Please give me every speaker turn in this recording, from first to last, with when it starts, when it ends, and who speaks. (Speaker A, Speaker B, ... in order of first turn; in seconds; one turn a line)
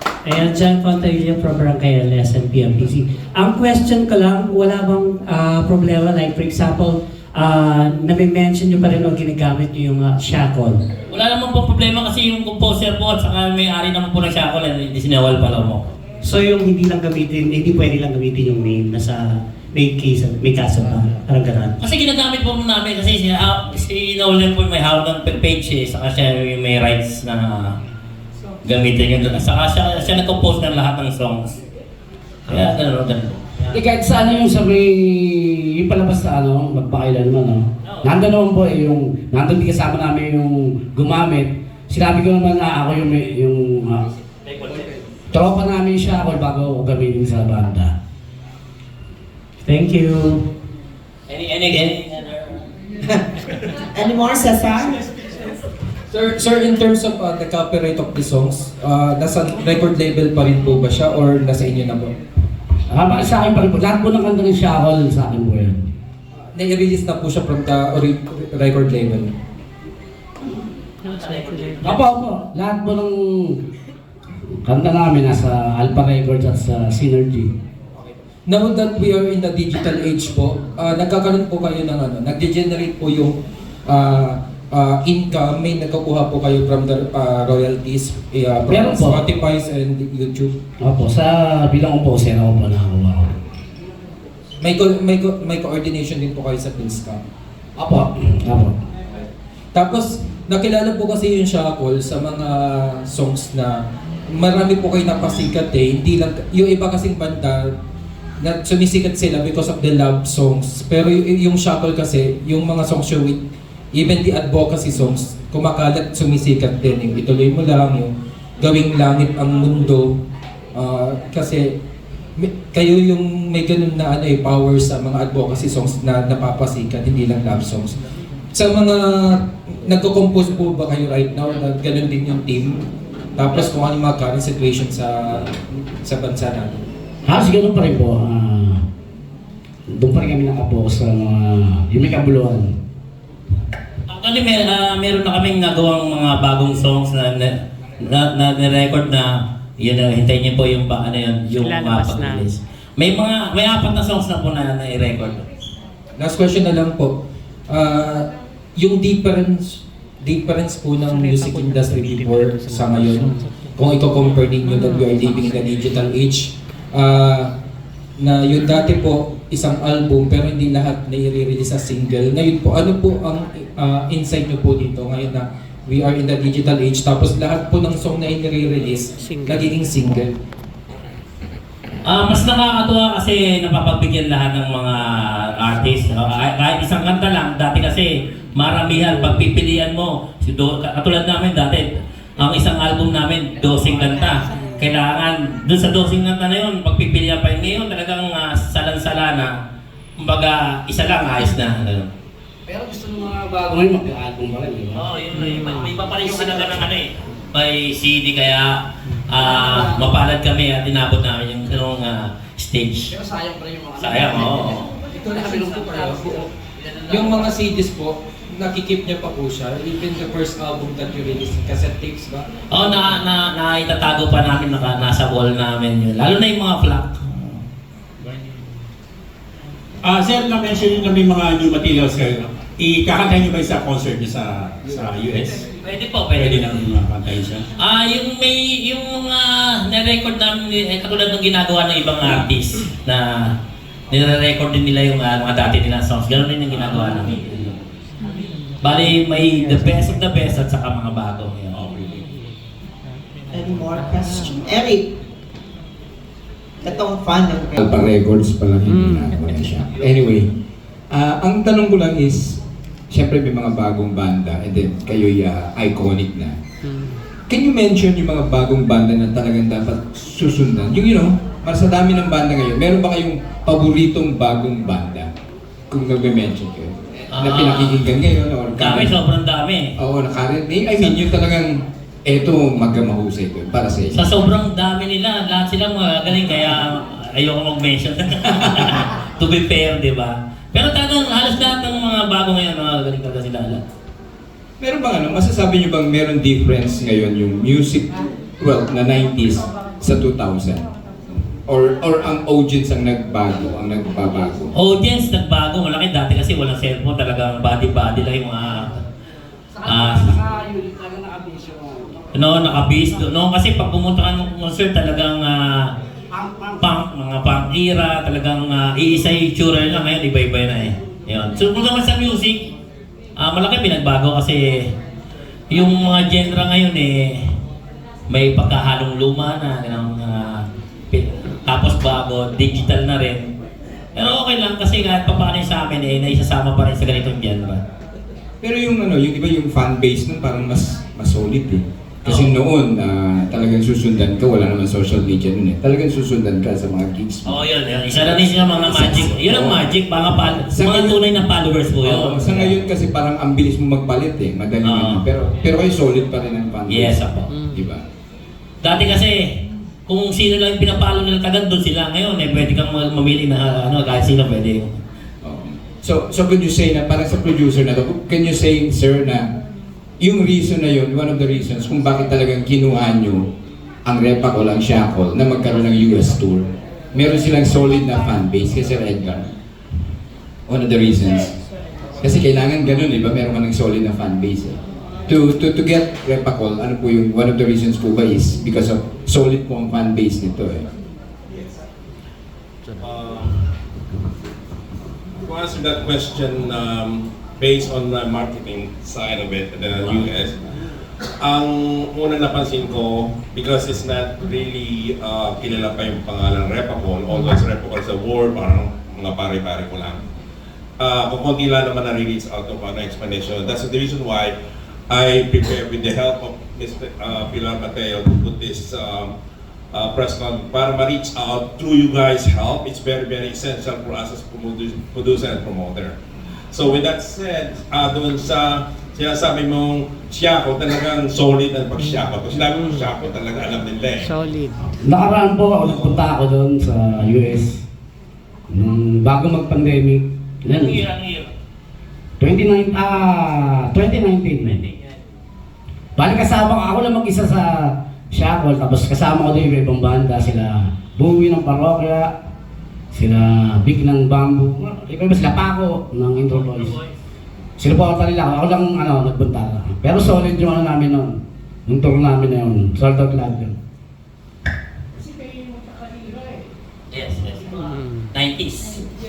Speaker A: 0.2-10.8
Speaker B: 11.1-15.9
Speaker A: 16.2-21.8
Speaker B: 21.8-27.8
Speaker B: 28.6-31.6
Speaker B: 32.5-33.8
Speaker C: 33.7-44.1
Speaker B: 37.9-38.2
Speaker B: 44.4-44.9
Speaker C: 45.3-47.9
Speaker A: 49.6-50.5
Speaker B: 51.3-52.6
Speaker D: 53.9-55.0
Speaker E: 56.1-62.1
Speaker C: 62.9-65.8
Speaker E: 66.5-69.3
Speaker B: 71.0-72.0
Speaker C: 71.8-73.6
Speaker C: 74.6-77.5
Speaker E: 78.5-90.5
Speaker C: 88.7-89.2
Speaker C: 90.8-93.3
Speaker E: 94.6-97.2
Speaker C: 97.8-98.7
Speaker E: 99.7-103.8
Speaker E: 104.3-107.7
Speaker E: 108.4-113.4
Speaker E: 113.9-120.1
Speaker E: 120.7-121.7
Speaker E: 122.4-128.0
Speaker E: 128.5-132.8
Speaker E: 133.4-136.8
Speaker C: 137.3-138.8
Speaker C: 139.9-142.7
Speaker B: 144.1-155.4
Speaker A: 151.6-152.5
Speaker E: 156.2-157.1
Speaker E: 157.7-167.5
Speaker A: 161.3-163.4
Speaker E: 168.2-180.3
Speaker B: 182.1-199.5
Speaker B: 200.2-202.1
Speaker C: 202.7-205.0
Speaker B: 204.9-213.1
Speaker A: 205.4-205.9
Speaker C: 206.2-206.8
Speaker C: 209.4-210.2
Speaker C: 213.1-214.7
Speaker B: 214.0-214.9
Speaker E: 215.1-216.5
Speaker C: 215.3-217.5
Speaker E: 217.1-222.5
Speaker B: 222.7-227.6
Speaker F: 230.0-235.6
Speaker B: 235.8-236.7
Speaker F: 236.4-237.6
Speaker B: 237.8-243.5
Speaker B: 244.1-247.6
Speaker B: 248.8-251.8
Speaker F: 251.7-252.2
Speaker D: 253.5-255.1
Speaker D: 256.8-258.0
Speaker G: 257.8-260.5
Speaker A: 259.0-259.3
Speaker G: 261.1-266.6
Speaker A: 266.9-267.2
Speaker G: 267.5-275.3
Speaker G: 275.9-279.1
Speaker B: 277.3-278.1
Speaker B: 278.8-279.9
Speaker G: 280.0-284.2
Speaker B: 284.1-293.8
Speaker G: 294.8-300.9
Speaker G: 301.7-304.7
Speaker B: 304.7-309.0
Speaker C: 309.7-312.6
Speaker B: 309.8-310.4
Speaker B: 312.3-315.9
Speaker C: 316.3-316.8
Speaker B: 316.8-322.7
Speaker B: 323.4-324.9
Speaker B: 325.7-327.4
Speaker B: 328.3-333.5
Speaker B: 334.1-337.8
Speaker G: 338.6-347.6
Speaker B: 342.2-342.6
Speaker B: 347.4-352.8
Speaker G: 348.2-349.9
Speaker G: 350.7-351.2
Speaker G: 352.0-358.0
Speaker B: 354.8-355.2
Speaker B: 356.9-357.5
Speaker B: 358.8-359.5
Speaker B: 360.1-364.9
Speaker G: 365.4-369.5
Speaker G: 370.2-373.5
Speaker G: 374.0-379.5
Speaker G: 380.7-381.6
Speaker G: 382.2-390.9
Speaker H: 393.0-393.6
Speaker H: 395.4-400.6
Speaker H: 401.4-410.2
Speaker H: 411.0-414.5
Speaker H: 415.1-419.3
Speaker H: 419.9-426.1
Speaker H: 426.7-434.3
Speaker A: 434.3-434.8
Speaker C: 435.0-437.8
Speaker H: 435.8-436.2
Speaker C: 438.7-441.1
Speaker B: 440.7-441.5
Speaker C: 442.4-444.9
Speaker C: 446.2-452.3
Speaker C: 453.1-456.9
Speaker B: 456.4-457.1
Speaker C: 457.8-461.3
Speaker C: 461.9-463.7
Speaker B: 467.1-469.0